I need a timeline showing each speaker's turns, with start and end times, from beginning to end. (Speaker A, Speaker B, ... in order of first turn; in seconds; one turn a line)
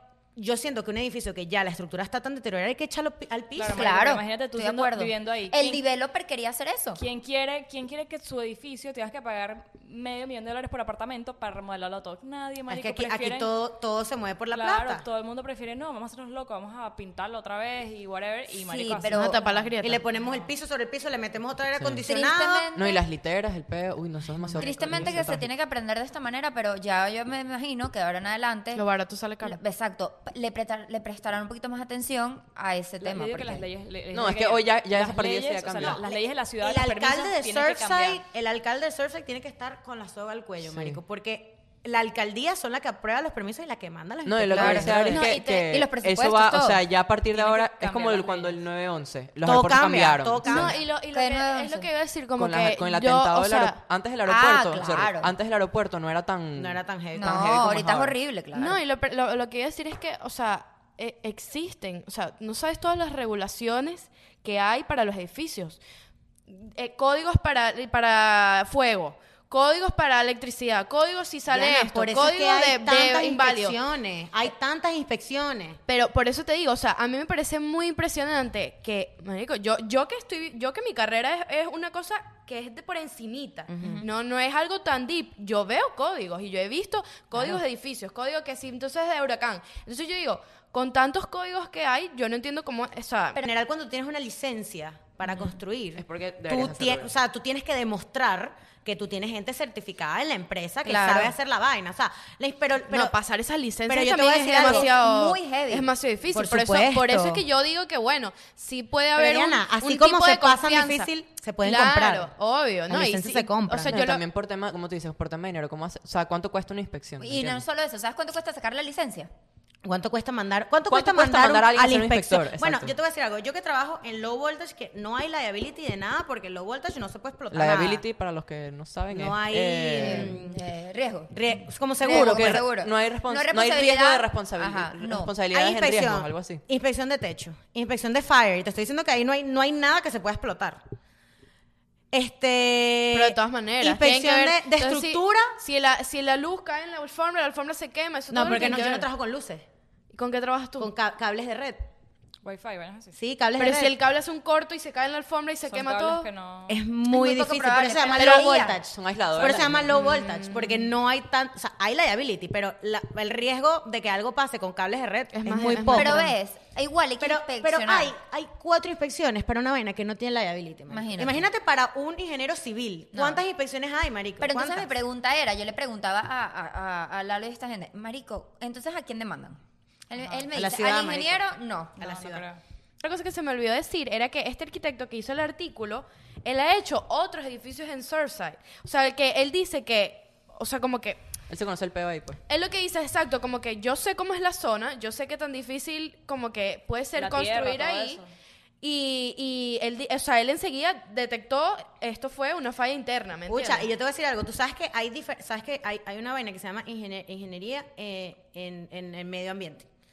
Speaker A: 0.4-4.0
Speaker B: 3.6-5.8
Speaker C: 3.7-7.0
Speaker B: 7.0-13.5
Speaker A: 12.7-15.1
Speaker B: 14.5-19.7
Speaker C: 18.5-19.5
Speaker D: 19.1-20.0
Speaker A: 19.8-22.7
Speaker E: 21.8-22.0
Speaker C: 22.0-23.1
Speaker E: 22.8-25.5
Speaker A: 24.4-25.1
Speaker C: 24.6-28.8
Speaker D: 28.7-29.6
Speaker C: 29.4-33.7
Speaker B: 33.0-38.2
Speaker E: 34.1-36.0
Speaker A: 35.8-45.4
Speaker E: 40.6-41.0
Speaker E: 44.2-50.8
Speaker C: 44.5-46.8
Speaker D: 44.9-45.8
Speaker B: 47.3-48.6
Speaker A: 49.4-50.9
Speaker C: 50.4-51.9
Speaker D: 50.5-53.8
Speaker E: 52.4-58.1
Speaker C: 54.3-55.3
Speaker A: 56.6-57.9
Speaker C: 57.1-58.8
Speaker D: 58.5-65.8
Speaker D: 66.5-73.8
Speaker A: 71.5-75.8
Speaker D: 75.9-93.4
Speaker A: 83.7-84.1
Speaker C: 83.8-84.1
Speaker A: 87.3-87.6
Speaker A: 93.3-103.1
Speaker E: 96.0-97.1
Speaker C: 100.8-101.4
Speaker D: 102.8-114.2
Speaker A: 103.9-104.9
Speaker C: 104.6-105.9
Speaker A: 106.3-107.4
Speaker A: 109.2-112.3
Speaker A: 112.9-114.0
Speaker E: 113.9-117.6
Speaker C: 117.2-119.3
Speaker A: 119.8-128.1
Speaker E: 120.9-123.0
Speaker E: 127.5-130.3
Speaker A: 129.1-130.6
Speaker C: 129.9-131.4
Speaker A: 131.3-132.7
Speaker C: 131.9-135.3
Speaker E: 132.0-136.6
Speaker A: 135.5-140.8
Speaker A: 142.1-145.6
Speaker D: 143.1-149.1
Speaker A: 148.3-149.7
Speaker D: 150.1-150.9
Speaker A: 150.8-151.8
Speaker B: 152.4-153.1
Speaker A: 153.1-153.9
Speaker D: 153.6-156.3
Speaker B: 155.7-156.8
Speaker A: 156.7-166.3
Speaker C: 157.1-158.8
Speaker D: 158.1-158.5
Speaker E: 158.9-160.0
Speaker D: 159.9-160.9
Speaker D: 165.3-166.3
Speaker C: 165.9-168.1
Speaker A: 167.2-174.9
Speaker C: 170.9-171.5
Speaker C: 173.1-173.4
Speaker C: 174.4-182.0
Speaker A: 180.5-181.4
Speaker A: 182.0-182.5
Speaker B: 182.0-182.6
Speaker D: 183.0-191.2
Speaker E: 191.5-192.4
Speaker D: 192.5-198.2
Speaker B: 197.2-198.3
Speaker D: 198.8-203.9
Speaker A: 203.5-209.9